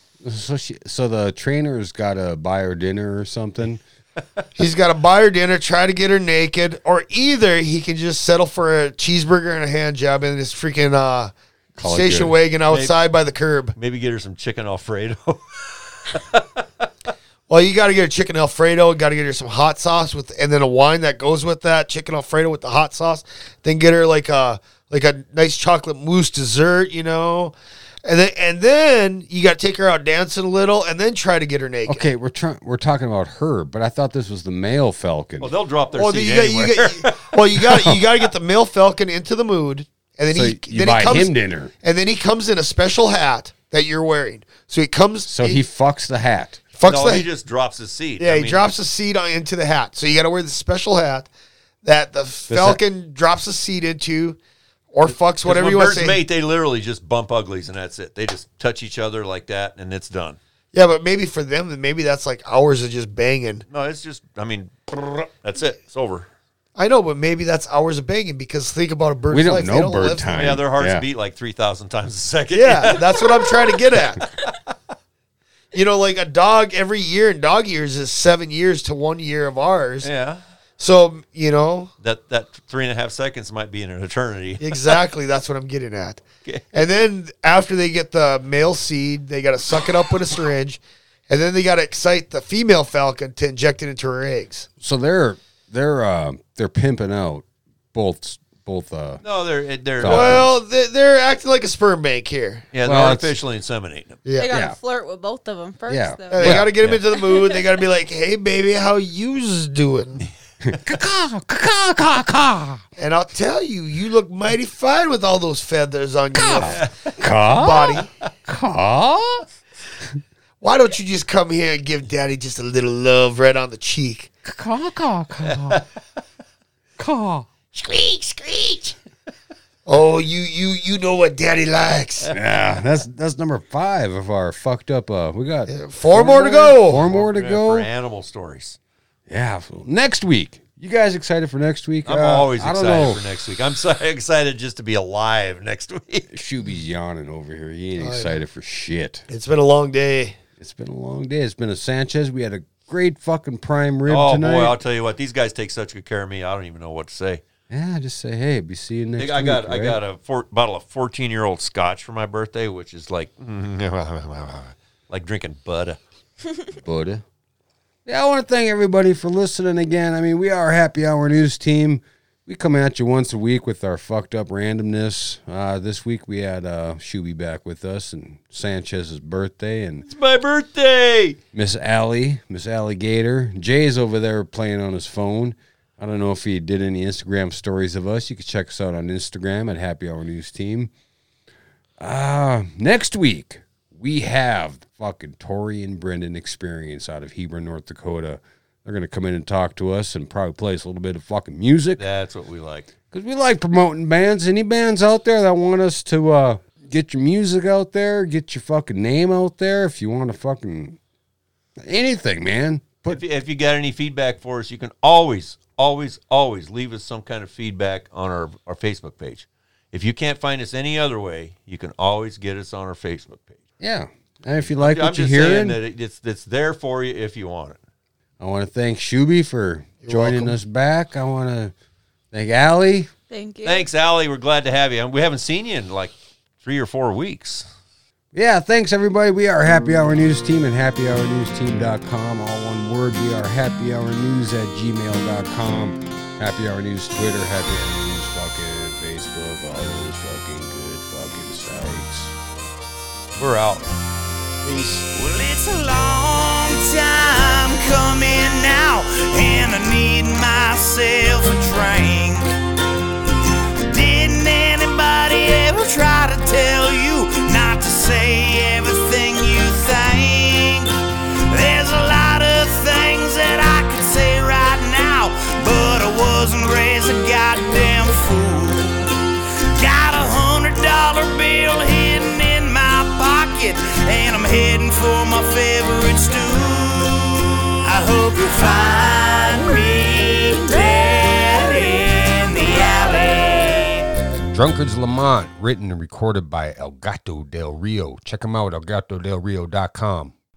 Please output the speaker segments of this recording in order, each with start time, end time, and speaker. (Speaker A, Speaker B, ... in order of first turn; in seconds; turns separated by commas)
Speaker A: 0.2-3.8, Speaker B: 4.2-4.5, Speaker C: 4.6-13.8, Speaker A: 11.8-12.4, Speaker B: 12.7-13.0, Speaker B: 13.8-16.9, Speaker C: 17.5-27.5, Speaker C: 28.1-32.1, Speaker A: 31.9-35.5, Speaker B: 35.4-38.0, Speaker C: 36.0-41.3, Speaker A: 40.3-41.7, Speaker C: 41.8-45.6, Speaker A: 45.2-46.6, Speaker C: 46.8-47.3, Speaker B: 46.8-48.6, Speaker C: 48.2-51.3, Speaker C: 51.8-54.4, Speaker A: 52.5-52.8, Speaker C: 54.9-56.2, Speaker B: 55.1-60.4, Speaker C: 60.7-63.6, Speaker B: 63.7-66.3, Speaker C: 66.8-70.6, Speaker A: 69.3-71.1, Speaker B: 70.3-73.7, Speaker C: 72.5-74.3, Speaker C: 75.7-80.1, Speaker B: 80.0-80.4, Speaker C: 80.8-81.9, Speaker B: 82.0-85.0, Speaker C: 84.6-94.7, Speaker B: 86.5-86.8, Speaker A: 94.8-99.2, Speaker B: 99.2-100.5, Speaker A: 100.0-100.5, Speaker C: 100.0-102.7, Speaker B: 102.7-104.2, Speaker A: 102.8-103.3, Speaker C: 104.2-104.5, Speaker D: 104.3-106.6, Speaker A: 104.5-104.8, Speaker A: 105.9-106.7, Speaker C: 106.3-110.2, Speaker B: 106.6-107.0, Speaker A: 110.6-112.8, Speaker C: 113.0-116.9, Speaker A: 116.3-119.5, Speaker B: 116.6-117.1, Speaker C: 117.5-118.1, Speaker C: 120.6-124.3, Speaker A: 124.5-125.8, Speaker B: 125.5-125.8, Speaker A: 127.0-127.5, Speaker B: 127.7-128.9, Speaker C: 129.9-132.3, Speaker A: 132.3-137.9, Speaker C: 135.7-137.0, Speaker B: 137.1-138.8, Speaker A: 139.3-143.2, Speaker B: 142.1-146.3, Speaker A: 146.3-149.3, Speaker C: 148.0-148.4, Speaker C: 149.3-150.4, Speaker A: 150.6-154.8, Speaker B: 154.1-157.4, Speaker A: 157.7-160.0, Speaker B: 159.2-166.0, Speaker A: 166.8-167.2, Speaker A: 168.1-180.1, Speaker B: 180.1-181.4, Speaker A: 181.5-190.9, Speaker A: 192.0-202.0, Speaker B: 202.0-202.9, Speaker A: 203.1-211.0, Speaker A: 211.8-213.2, Speaker B: 213.1-223.6, Speaker A: 223.8-225.8, Speaker B: 224.8-227.8, Speaker A: 228.4-231.7, Speaker C: 230.0-230.6, Speaker A: 232.3-233.1, Speaker D: 233.3-233.9, Speaker B: 233.7-237.7, Speaker A: 238.3-252.4, Speaker B: 253.4-253.9, Speaker C: 254.6-255.0, Speaker E: 255.1-262.6, Speaker E: 263.9-270.9, Speaker E: 271.5-279.0, Speaker E: 279.8-294.0, Speaker A: 294.5-300.3